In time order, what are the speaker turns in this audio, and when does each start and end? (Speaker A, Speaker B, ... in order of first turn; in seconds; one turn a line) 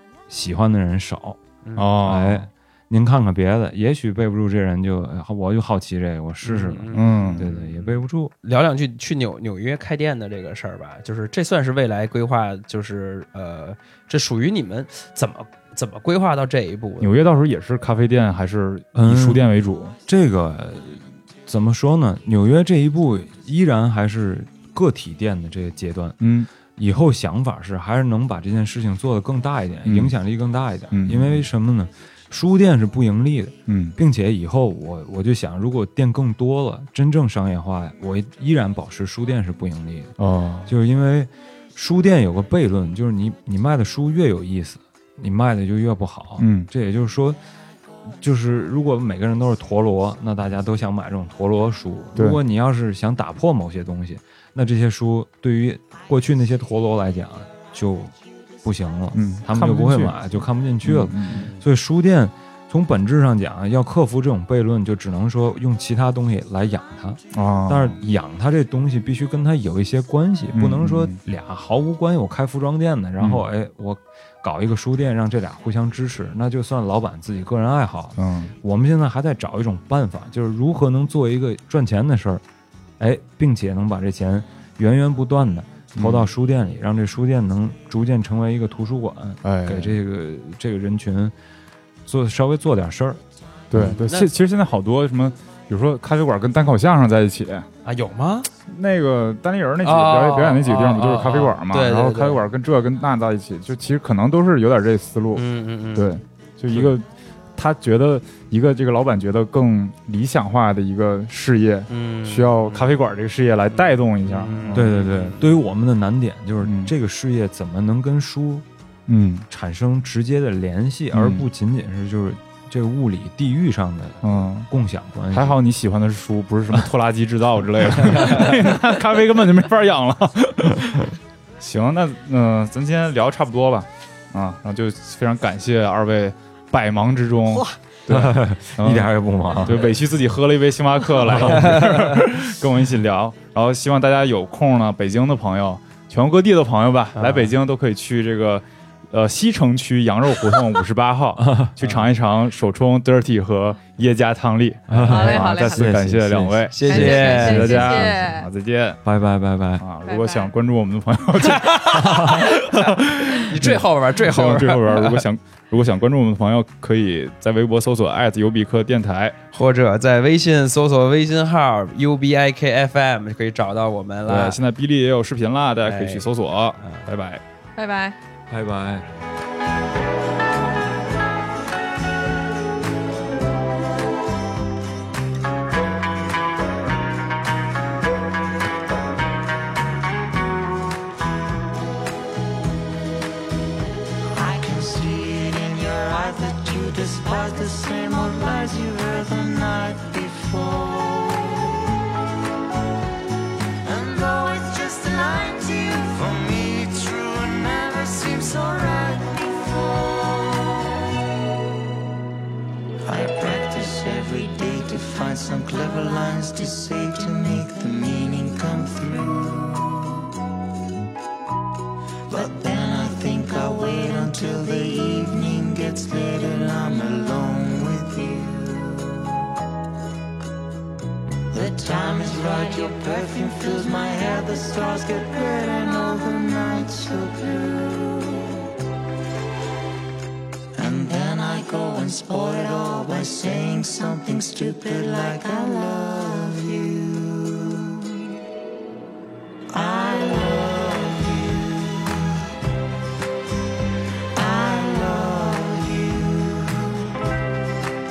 Speaker A: 0.3-1.4
Speaker B: 1.6-1.9
Speaker C: 1.7-2.5
Speaker A: 2.0-8.3
Speaker B: 6.4-17.1
Speaker C: 6.9-7.5
Speaker C: 17.0-19.9
Speaker A: 18.9-19.5
Speaker A: 20.1-26.2
Speaker C: 26.2-26.5
Speaker A: 26.7-40.1
Speaker C: 29.8-30.2
Speaker C: 30.9-31.5
Speaker C: 33.7-34.0
Speaker C: 40.2-40.7
Speaker A: 40.7-47.4
Speaker C: 46.4-46.7
Speaker A: 48.2-82.4
Speaker C: 59.1-61.5
Speaker B: 61.3-61.6
Speaker C: 67.3-68.0
Speaker C: 70.5-71.2
Speaker C: 73.2-73.5
Speaker C: 78.2-78.5
Speaker A: 83.0-91.3
Speaker C: 85.9-86.3
Speaker C: 89.4-90.0
Speaker A: 92.1-93.2
Speaker C: 93.7-97.7
Speaker B: 93.7-94.3
Speaker B: 97.8-98.5
Speaker C: 98.7-114.9
Speaker B: 99.8-102.4
Speaker B: 105.3-106.9
Speaker B: 111.9-113.0
Speaker B: 113.7-115.5
Speaker A: 114.7-118.6
Speaker C: 116.6-116.9
Speaker C: 119.1-119.5
Speaker A: 119.5-125.6
Speaker C: 121.1-121.4
Speaker C: 124.2-124.7
Speaker C: 125.3-159.0
Speaker B: 128.1-128.6
Speaker A: 138.1-139.9
Speaker A: 141.3-141.8
Speaker B: 141.4-142.2
Speaker B: 147.1-147.5
Speaker A: 151.4-151.8
Speaker A: 154.9-158.2
Speaker D: 155.1-155.9
Speaker B: 156.7-158.0
Speaker D: 156.9-158.5
Speaker A: 159.0-159.8
Speaker C: 159.8-169.4
Speaker D: 160.0-160.5
Speaker B: 161.4-165.3
Speaker A: 161.9-162.3
Speaker B: 169.5-174.6
Speaker C: 174.2-177.4
Speaker B: 175.8-176.3
Speaker B: 176.8-177.1
Speaker D: 177.8-178.2
Speaker A: 178.5-179.1
Speaker E: 194.3-201.8
Speaker E: 203.8-210.8
Speaker E: 213.0-220.2
Speaker E: 222.3-229.3
Speaker E: 231.5-238.6
Speaker E: 240.7-248.1
Speaker E: 249.7-252.4
Speaker E: 254.3-257.1